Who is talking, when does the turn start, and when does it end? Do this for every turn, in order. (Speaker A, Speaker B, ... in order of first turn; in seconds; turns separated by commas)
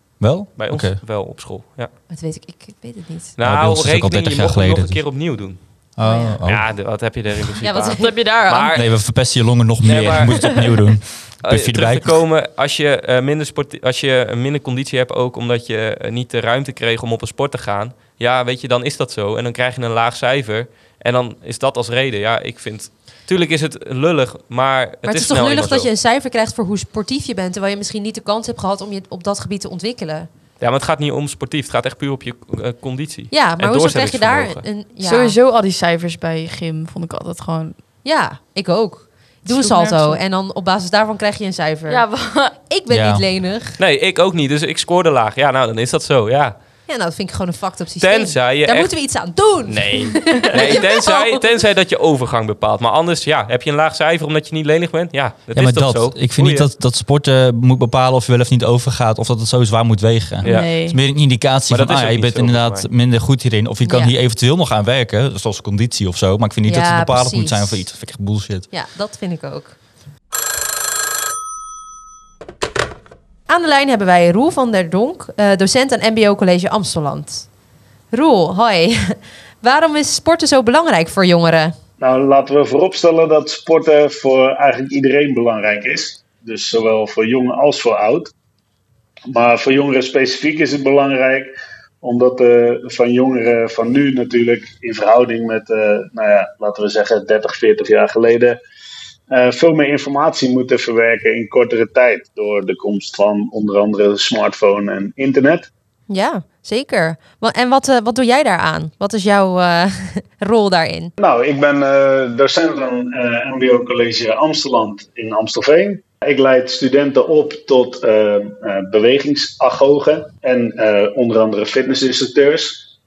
Speaker A: 0.2-1.0, Speaker B: 0.3-1.9, Speaker C: 2.1-3.3, Speaker B: 3.4-5.6, Speaker A: 3.4-5.0, Speaker A: 6.0-6.7, Speaker C: 6.0-6.4, Speaker B: 6.5-8.8, Speaker C: 7.6-8.4, Speaker D: 8.0-8.7, Speaker A: 8.7-12.2, Speaker B: 9.8-10.7, Speaker B: 11.4-25.9, Speaker C: 25.0-30.3, Speaker B: 30.6-34.6, Speaker C: 33.3-35.3, Speaker D: 35.0-37.8, Speaker C: 38.0-43.8, Speaker D: 39.5-40.2, Speaker D: 41.9-42.5, Speaker A: 42.9-43.2, Speaker B: 43.8-46.5, Speaker C: 46.9-51.4, Speaker B: 48.0-48.9, Speaker B: 49.7-56.7, Speaker A: 55.5-68.7, Speaker B: 60.4-60.7, Speaker D: 60.4-61.0, Speaker B: 61.7-62.9, Speaker C: 63.8-64.1, Speaker C: 66.6-67.8, Speaker C: 68.7-69.8, Speaker C: 73.5-77.5, Speaker C: 78.1-81.7, Speaker E: 82.0-88.3, Speaker E: 89.3-98.6, Speaker E: 99.3-105.7, Speaker C: 106.1-111.1, Speaker E: 111.2-122.8